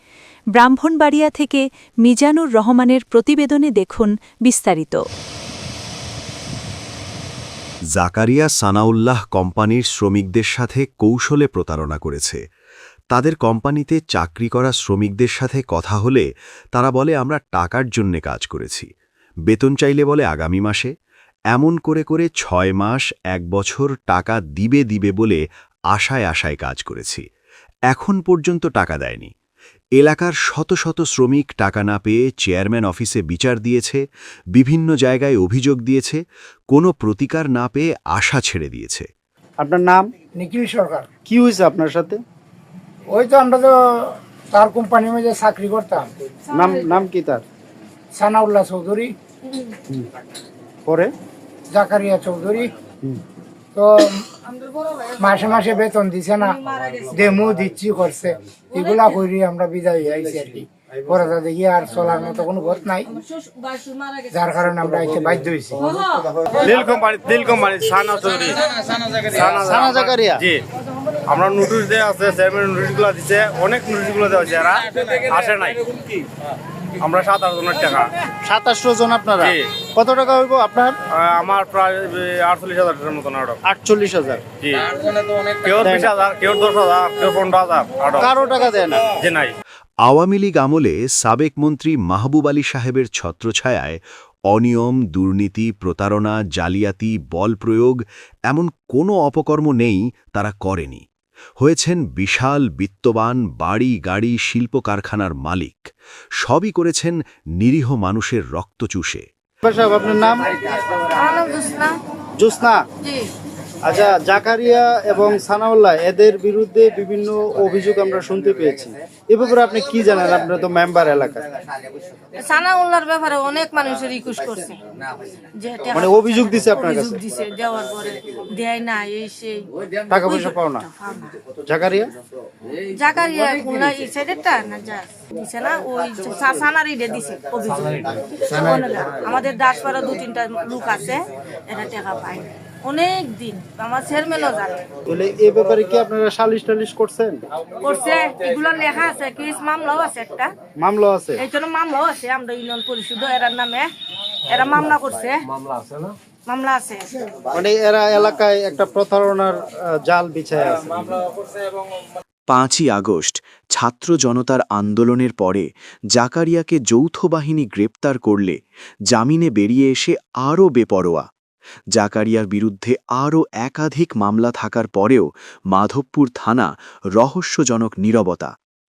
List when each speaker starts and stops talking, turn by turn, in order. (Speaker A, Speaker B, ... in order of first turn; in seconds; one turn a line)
Speaker A: 0.6-5.0
Speaker B: 8.0-12.4
Speaker B: 13.1-18.9
Speaker B: 19.5-20.9
Speaker B: 21.5-27.2
Speaker B: 27.9-29.3
Speaker B: 30.0-39.1
Speaker C: 39.6-40.1
Speaker D: 40.4-41.1
Speaker C: 41.3-42.2
Speaker D: 43.1-46.1
Speaker C: 46.5-47.4
Speaker D: 48.1-49.1
Speaker C: 50.9-51.1
Speaker D: 51.7-52.7
Speaker D: 53.7-54.2
Speaker D: 55.2-63.1
Speaker E: 63.4-64.1
Speaker D: 64.3-65.9
Speaker F: 66.6-70.6
Speaker C: 69.6-70.4
Speaker F: 71.3-75.8
Speaker F: 77.0-78.1
Speaker C: 78.5-81.0
Speaker F: 79.4-79.7
Speaker F: 81.1-83.6
Speaker C: 83.7-84.4
Speaker F: 84.6-88.3
Speaker C: 85.8-86.1
Speaker C: 88.2-89.1
Speaker F: 89.1-89.5
Speaker B: 90.0-101.0
Speaker B: 101.6-109.2
Speaker C: 109.6-110.5
Speaker E: 111.2-112.0
Speaker C: 112.4-112.8
Speaker C: 113.8-121.5
Speaker E: 122.4-124.8
Speaker E: 125.5-131.4
Speaker C: 126.0-127.2
Speaker C: 130.1-130.9
Speaker C: 131.7-132.1
Speaker E: 133.0-144.8
Speaker C: 145.1-147.4
Speaker E: 147.8-150.5
Speaker C: 150.8-151.4
Speaker E: 151.4-153.9
Speaker E: 154.5-157.2
Speaker C: 157.5-161.2
Speaker G: 162.5-163.0
Speaker B: 162.6-168.5
Speaker G: 163.8-165.7
Speaker G: 166.2-168.6
Speaker G: 169.1-171.2
Speaker B: 169.4-171.2
Speaker G: 171.9-175.2
Speaker B: 172.0-176.7
Speaker G: 175.8-176.7
Speaker B: 177.2-178.5
Speaker G: 177.2-178.5